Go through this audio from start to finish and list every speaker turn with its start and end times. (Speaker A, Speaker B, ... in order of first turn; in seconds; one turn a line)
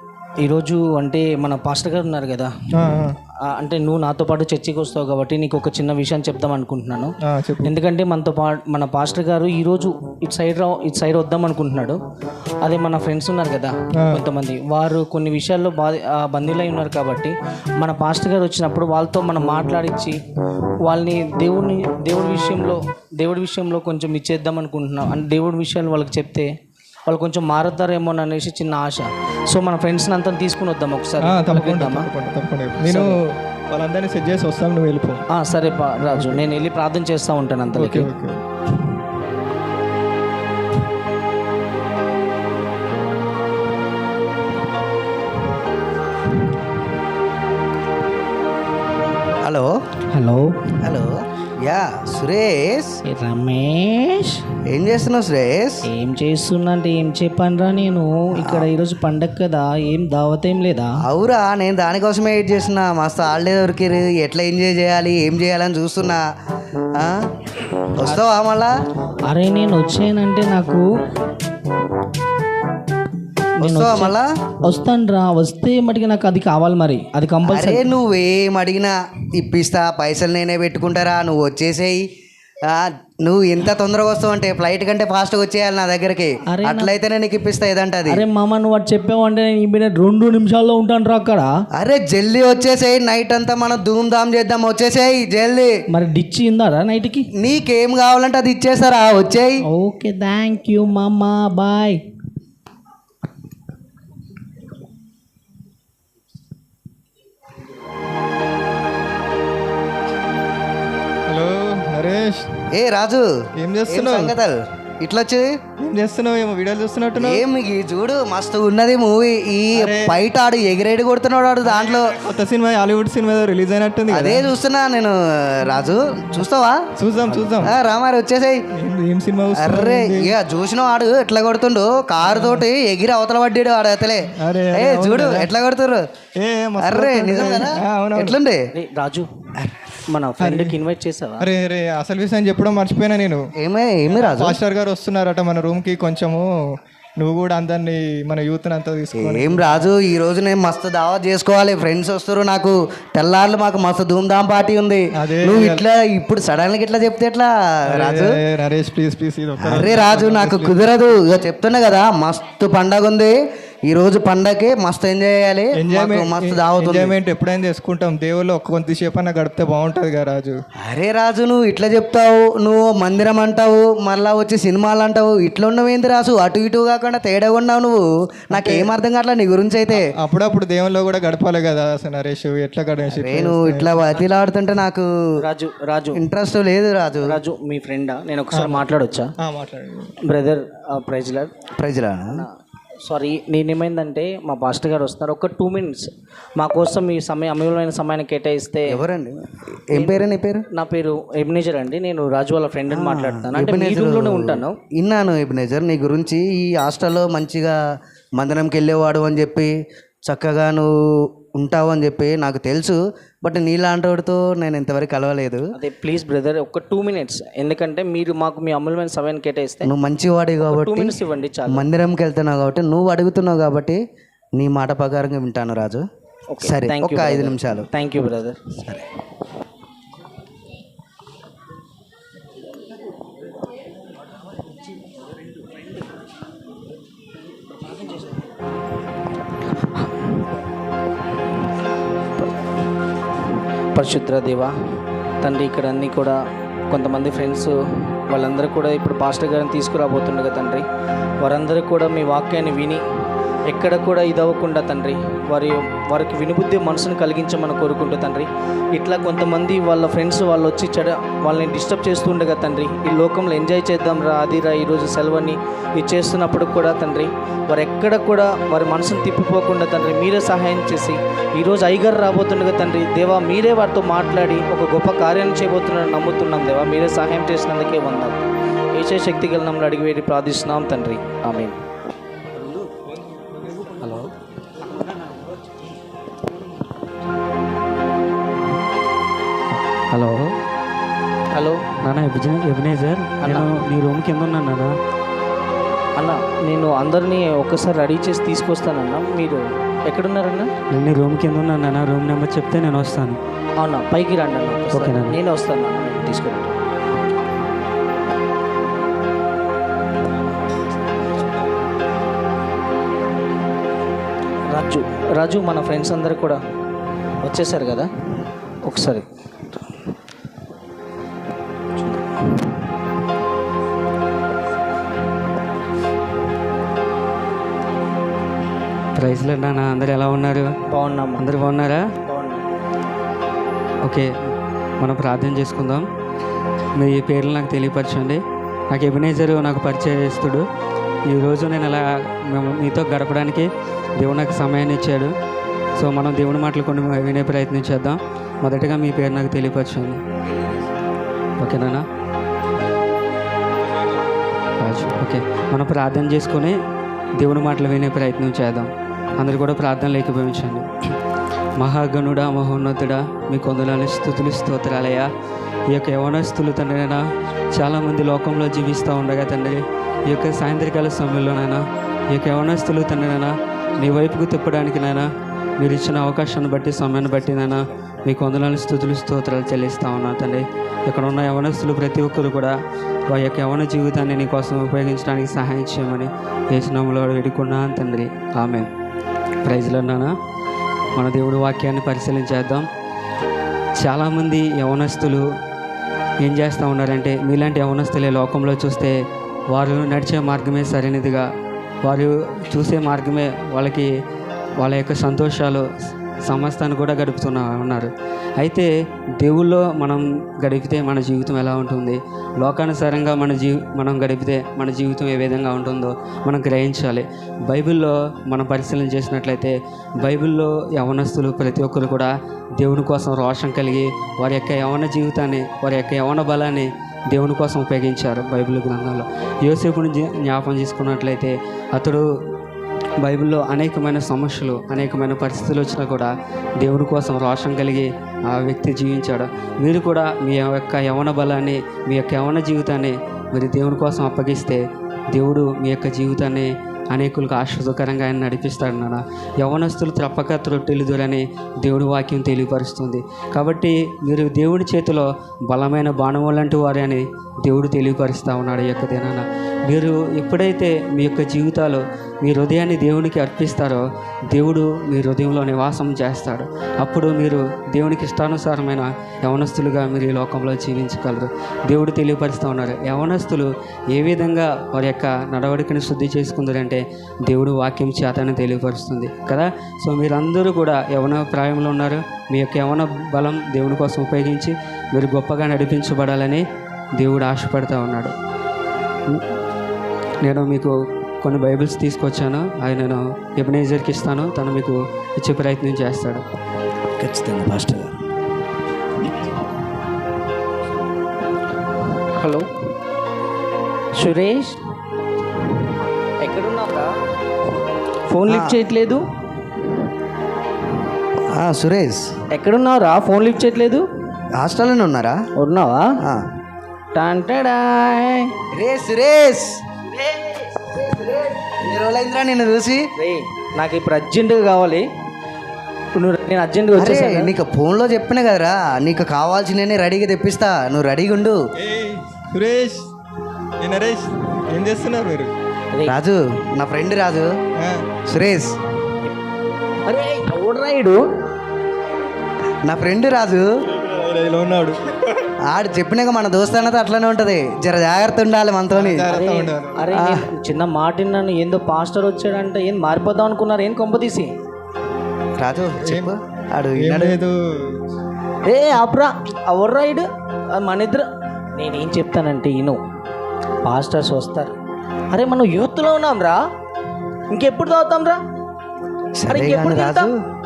Speaker A: 0.4-2.5
Speaker B: 2.7-3.1
Speaker A: 3.4-12.0
Speaker B: 7.2-7.7
Speaker A: 12.6-20.2
Speaker B: 14.0-14.2
Speaker A: 20.8-26.5
Speaker A: 27.1-32.1
Speaker B: 31.2-33.2
Speaker A: 32.8-33.2
Speaker B: 33.7-35.2
Speaker A: 35.3-38.1
Speaker B: 36.0-36.4
Speaker B: 37.7-38.4
Speaker C: 49.4-49.8
Speaker A: 50.1-50.5
Speaker C: 50.8-53.0
Speaker A: 53.0-54.4
Speaker C: 54.7-55.8
Speaker A: 55.8-61.0
Speaker C: 61.0-66.2
Speaker C: 67.0-67.2
Speaker C: 68.0-68.7
Speaker A: 69.2-70.8
Speaker A: 73.6-77.9
Speaker C: 73.6-74.3
Speaker C: 77.5-82.0
Speaker C: 82.6-88.2
Speaker A: 86.5-86.9
Speaker A: 88.1-91.5
Speaker C: 91.8-95.7
Speaker A: 95.9-97.3
Speaker C: 97.4-99.6
Speaker A: 99.6-102.0
Speaker B: 111.3-112.6
Speaker C: 112.7-113.3
Speaker B: 113.6-114.3
Speaker C: 113.9-115.5
Speaker B: 115.8-117.4
Speaker C: 117.2-122.2
Speaker B: 119.8-120.2
Speaker B: 121.7-124.5
Speaker C: 124.1-126.8
Speaker B: 127.0-127.8
Speaker C: 127.6-128.6
Speaker B: 128.8-130.3
Speaker C: 129.6-136.0
Speaker B: 132.2-132.6
Speaker B: 134.3-135.5
Speaker B: 136.4-138.4
Speaker C: 136.8-138.7
Speaker A: 138.7-139.3
Speaker C: 139.6-139.9
Speaker A: 140.1-141.5
Speaker B: 140.4-140.8
Speaker B: 141.4-143.5
Speaker C: 143.6-144.6
Speaker B: 144.1-146.5
Speaker B: 147.2-149.7
Speaker C: 149.2-158.4
Speaker B: 155.2-155.8
Speaker B: 157.9-160.8
Speaker C: 159.6-167.2
Speaker B: 165.8-170.6
Speaker C: 170.8-180.0
Speaker B: 178.5-178.9
Speaker B: 179.9-184.0
Speaker C: 183.1-185.1
Speaker A: 185.4-186.2
Speaker C: 186.1-187.4
Speaker A: 187.2-189.3
Speaker B: 188.5-188.9
Speaker B: 189.4-190.1
Speaker A: 190.2-191.5
Speaker C: 191.8-192.4
Speaker A: 193.0-199.0
Speaker C: 198.9-200.6
Speaker A: 199.9-204.8
Speaker C: 202.9-207.8
Speaker C: 208.4-209.7
Speaker C: 210.2-215.7
Speaker A: 215.7-219.9
Speaker C: 219.8-221.2
Speaker A: 220.6-221.8
Speaker C: 221.7-224.0
Speaker C: 224.6-226.0
Speaker A: 226.5-228.6
Speaker C: 226.6-227.9
Speaker C: 228.7-229.1
Speaker A: 243.9-244.7
Speaker A: 245.4-250.8
Speaker A: 251.4-253.0
Speaker A: 253.7-278.4
Speaker A: 278.9-281.8
Speaker B: 283.2-283.9
Speaker D: 284.0-284.3
Speaker D: 290.1-290.5
Speaker A: 291.5-291.8
Speaker D: 292.0-294.9
Speaker A: 293.4-293.7
Speaker A: 296.1-300.7
Speaker D: 300.9-303.4
Speaker A: 303.8-306.8
Speaker D: 304.9-305.3
Speaker A: 314.7-316.6
Speaker A: 317.4-318.1
Speaker A: 318.8-319.3
Speaker A: 322.1-322.4
Speaker D: 329.1-330.7
Speaker A: 330.9-331.5
Speaker D: 331.4-332.0
Speaker A: 332.2-332.6
Speaker D: 335.0-336.0
Speaker D: 337.0-340.6
Speaker D: 341.3-345.3
Speaker D: 346.0-350.2
Speaker D: 351.6-352.0
Speaker D: 354.8-356.7
Speaker D: 357.4-360.9
Speaker D: 361.8-365.3
Speaker D: 365.9-367.2
Speaker D: 367.8-375.3
Speaker D: 375.8-382.7
Speaker D: 383.3-388.9
Speaker D: 389.6-390.3
Speaker D: 391.1-392.9
Speaker D: 394.0-395.4
Speaker D: 396.4-399.1
Speaker D: 399.7-401.4
Speaker D: 402.0-404.1
Speaker D: 404.8-405.8
Speaker D: 406.5-408.9
Speaker D: 409.4-432.2
Speaker D: 433.2-486.6
Speaker D: 487.2-488.3
Speaker D: 490.4-496.4
Speaker C: 497.2-498.1
Speaker A: 502.4-502.7
Speaker A: 504.1-504.8
Speaker A: 506.4-507.1
Speaker A: 508.3-509.2
Speaker C: 508.5-508.8
Speaker C: 511.5-512.3
Speaker A: 512.5-514.0
Speaker C: 514.6-515.4
Speaker A: 515.6-516.1
Speaker A: 517.1-518.5
Speaker C: 518.7-519.8
Speaker C: 520.7-523.0
Speaker A: 523.2-525.0
Speaker A: 526.1-527.5
Speaker C: 527.0-531.6
Speaker B: 531.8-533.0
Speaker B: 533.8-535.5
Speaker C: 536.0-537.5
Speaker B: 537.8-538.1
Speaker C: 538.3-538.7
Speaker A: 540.1-541.2
Speaker C: 542.9-543.7
Speaker B: 543.9-545.5
Speaker C: 545.7-549.3
Speaker B: 548.9-550.1
Speaker A: 549.3-554.5
Speaker C: 550.1-550.5
Speaker C: 555.6-557.4
Speaker B: 556.0-556.3
Speaker B: 557.0-558.0
Speaker A: 558.6-563.0
Speaker A: 563.8-564.7
Speaker A: 565.3-566.6
Speaker A: 567.5-568.4
Speaker C: 569.4-570.4
Speaker A: 569.5-570.3